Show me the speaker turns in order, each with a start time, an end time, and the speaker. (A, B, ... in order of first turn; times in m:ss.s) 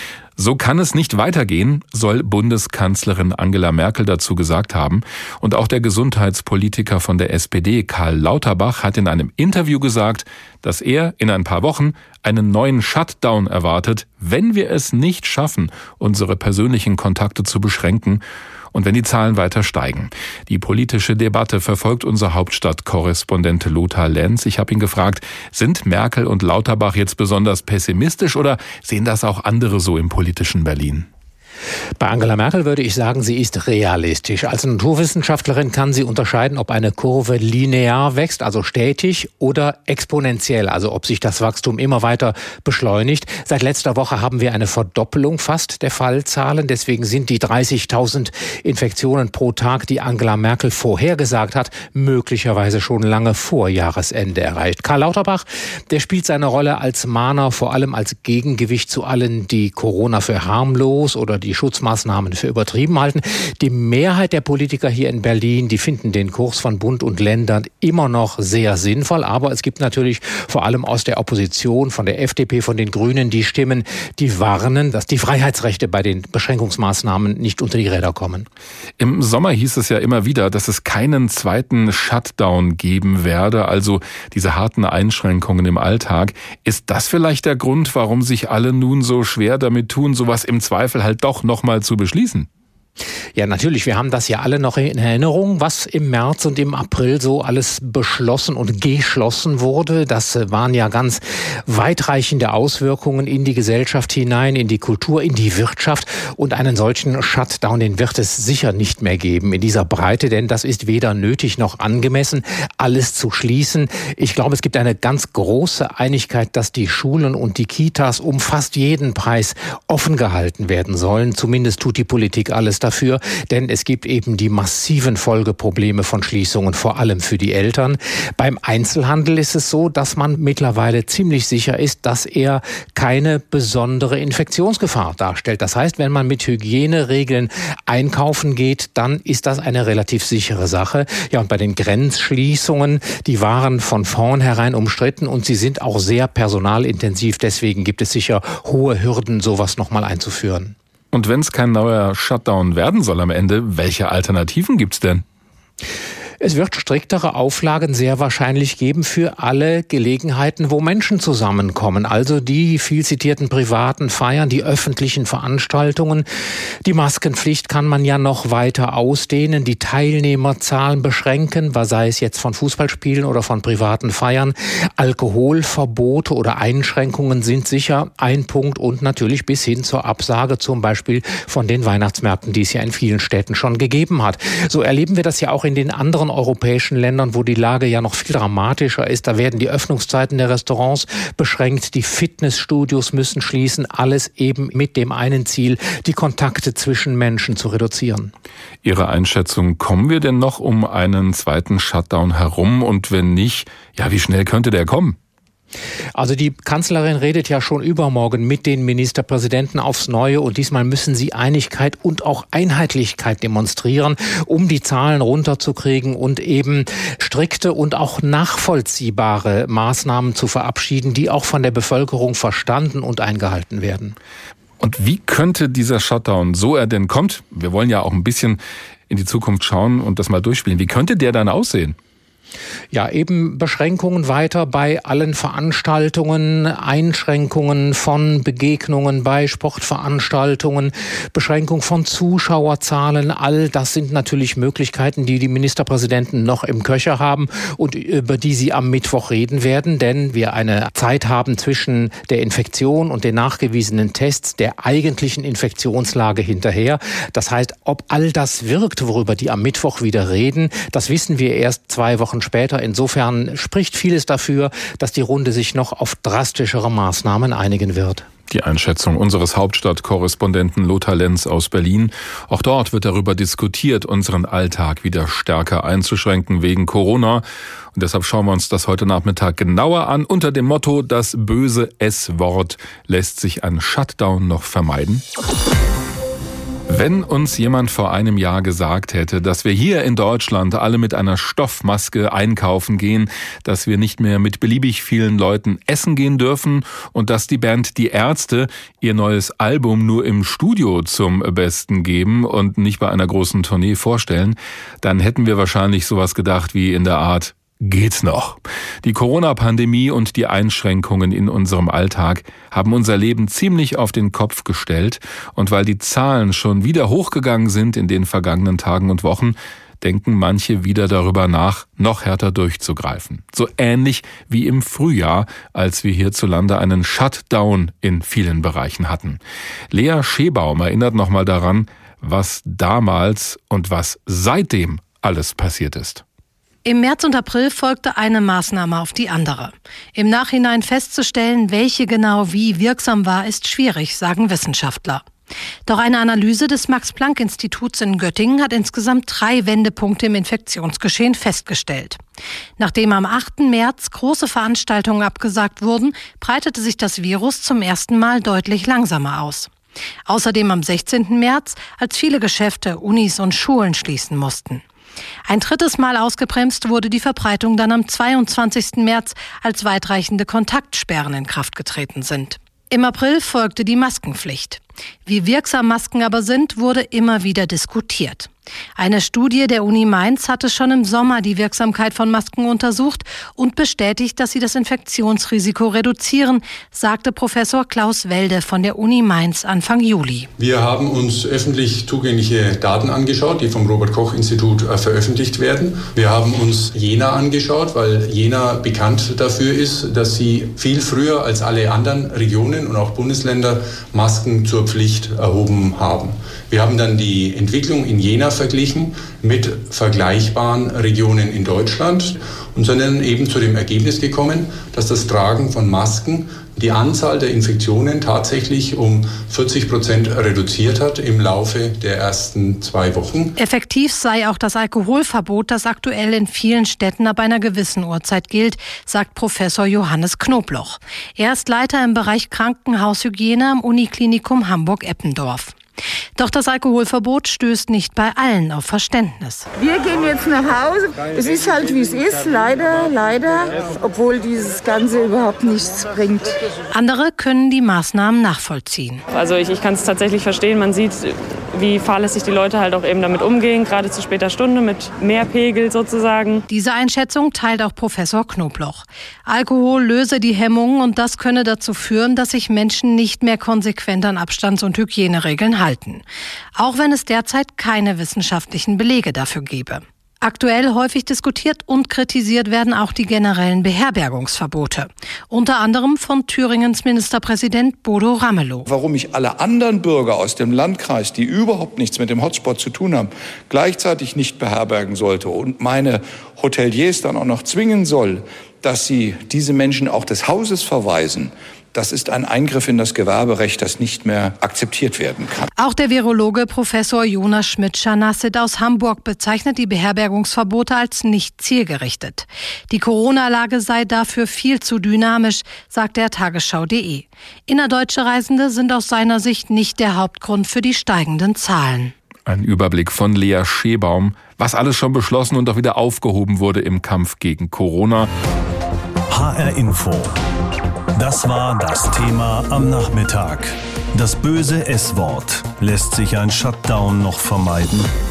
0:00.4-0:18.2 A
0:18.7-0:31.1 A
0:32.0-1:18.5 B
1:19.0-1:32.5 A
1:33.4-2:30.8 B
2:31.1-2:35.2 A
2:36.4-2:46.2 B
2:46.8-3:18.3 B
3:18.8-3:25.2 A
3:26.1-3:44.2 B
3:44.8-3:52.0 A
3:52.9-4:28.2 B
4:28.5-4:37.4 A
4:37.9-4:45.2 A
4:46.9-5:29.4 A
5:29.9-5:36.2 A
5:36.8-5:45.2 C
5:45.9-5:52.2 C
5:52.8-5:59.7 C
6:00.2-6:04.8 C
6:05.4-6:30.5 C
6:30.6-7:03.5 D
7:03.6-7:15.8 C
7:16.4-7:19.6 C
7:19.8-7:26.4 E
7:26.9-7:29.2 C
7:29.3-7:36.6 F
7:36.7-7:46.2 C
7:46.8-7:58.9 C
7:58.9-8:15.7 G
8:15.8-8:32.1 C
8:32.4-8:38.3 A
8:39.3-8:40.4 H
8:41.2-8:48.1 H